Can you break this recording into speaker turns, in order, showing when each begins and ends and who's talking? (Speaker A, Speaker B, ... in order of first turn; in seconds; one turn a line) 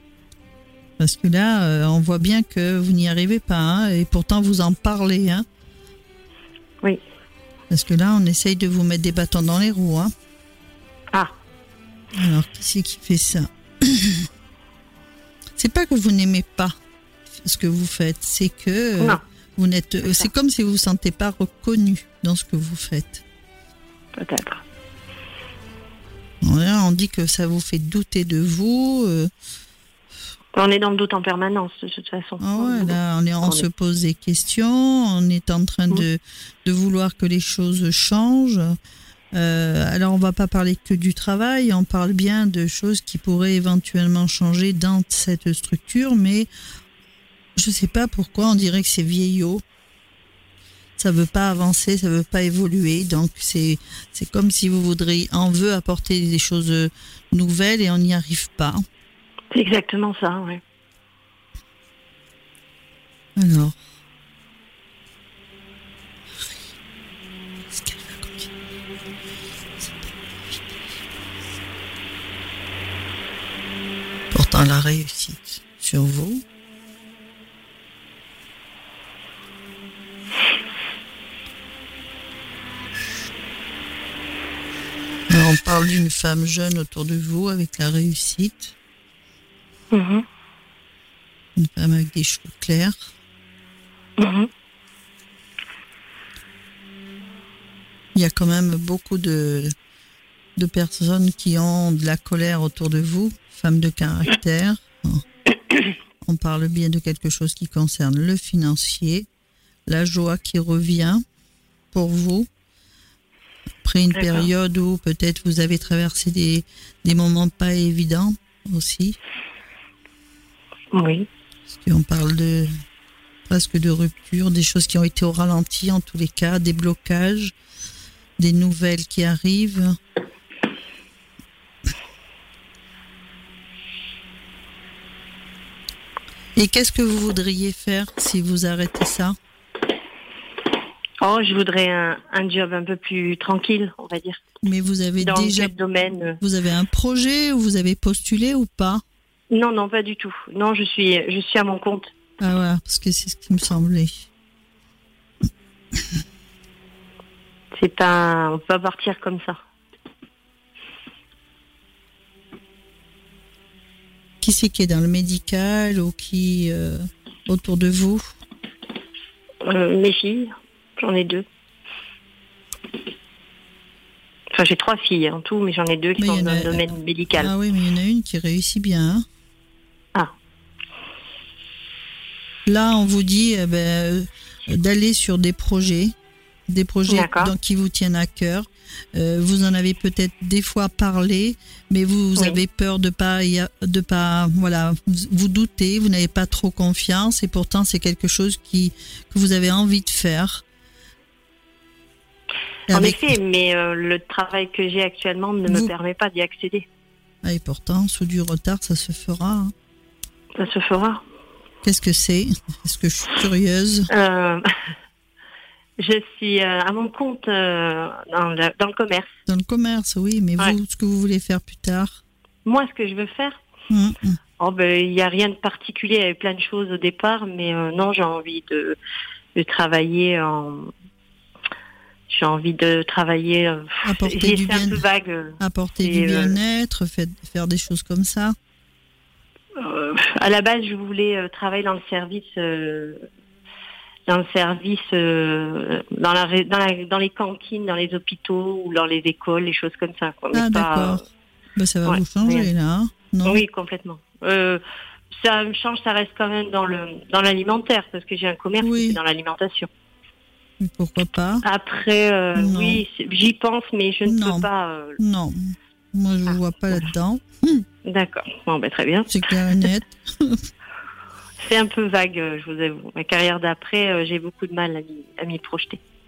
Speaker A: 1.0-5.5
Speaker A: 7.7-10.1
Speaker A: 12.2-14.3
Speaker A: 15.6-16.8
Speaker A: 17.4-23.2
Speaker B: 24.1-24.6
Speaker A: 26.4-29.3
Speaker B: 30.5-33.6
Speaker A: 32.4-38.8
Speaker A: 39.3-46.5
Speaker A: 47.5-49.6
Speaker A: 51.0-58.8
Speaker B: 59.5-60.6
Speaker A: 63.4-63.8
Speaker A: 67.7-68.5
Speaker A: 69.8-71.0
Speaker A: 74.3-76.4
Speaker A: 85.3-88.7
Speaker B: 89.9-90.2
Speaker A: 91.5-93.1
Speaker B: 94.2-94.5
Speaker A: 98.1-99.7
Speaker A: 100.5-105.2
Speaker A: 106.2-109.3
Speaker A: 109.9-111.2
Speaker A: 111.9-112.5
Speaker A: 113.8-119.2
Speaker B: 114.1-114.5
Speaker B: 120.9-121.3
Speaker A: 121.7-122.7
Speaker A: 123.5-127.5
Speaker A: 128.4-130.0
Speaker A: 136.6-139.3
Speaker B: 141.2-144.4
Speaker A: 144.6-145.7
Speaker B: 145.2-146.4
Speaker A: 146.4-149.0
Speaker B: 149.5-152.1
Speaker A: 152.4-154.2
Speaker B: 157.7-159.6
Speaker A: 164.4-168.3
Speaker B: 169.6-171.4
Speaker B: 174.5-177.5
Speaker A: 176.2-179.2
Speaker A: 182.7-186.1
Speaker A: 186.7-200.6
Speaker B: 187.1-187.5
Speaker A: 202.9-203.3
Speaker B: 202.9-206.8
Speaker A: 205.7-205.9
Speaker A: 207.4-209.7
Speaker B: 210.6-211.2
Speaker A: 211.8-214.1
Speaker B: 214.1-214.7
Speaker B: 216.0-219.3
Speaker A: 219.5-222.2
Speaker B: 222.6-223.6
Speaker A: 223.9-224.4
Speaker B: 224.6-229.0
Speaker B: 229.6-230.9
Speaker B: 232.3-236.6
Speaker A: 234.0-235.0
Speaker A: 235.6-238.6
Speaker B: 239.8-243.2
Speaker B: 244.3-251.2
Speaker A: 250.5-251.2
Speaker A: 251.8-253.6
Speaker B: 252.0-252.7
Speaker B: 253.4-259.9
Speaker A: 258.8-259.2
Speaker A: 260.8-261.6
Speaker B: 261.6-265.2
Speaker A: 262.6-263.0
Speaker A: 264.2-264.7
Speaker A: 265.2-267.9
Speaker B: 266.5-267.1
Speaker B: 268.0-269.9
Speaker A: 269.3-270.6
Speaker B: 271.6-276.0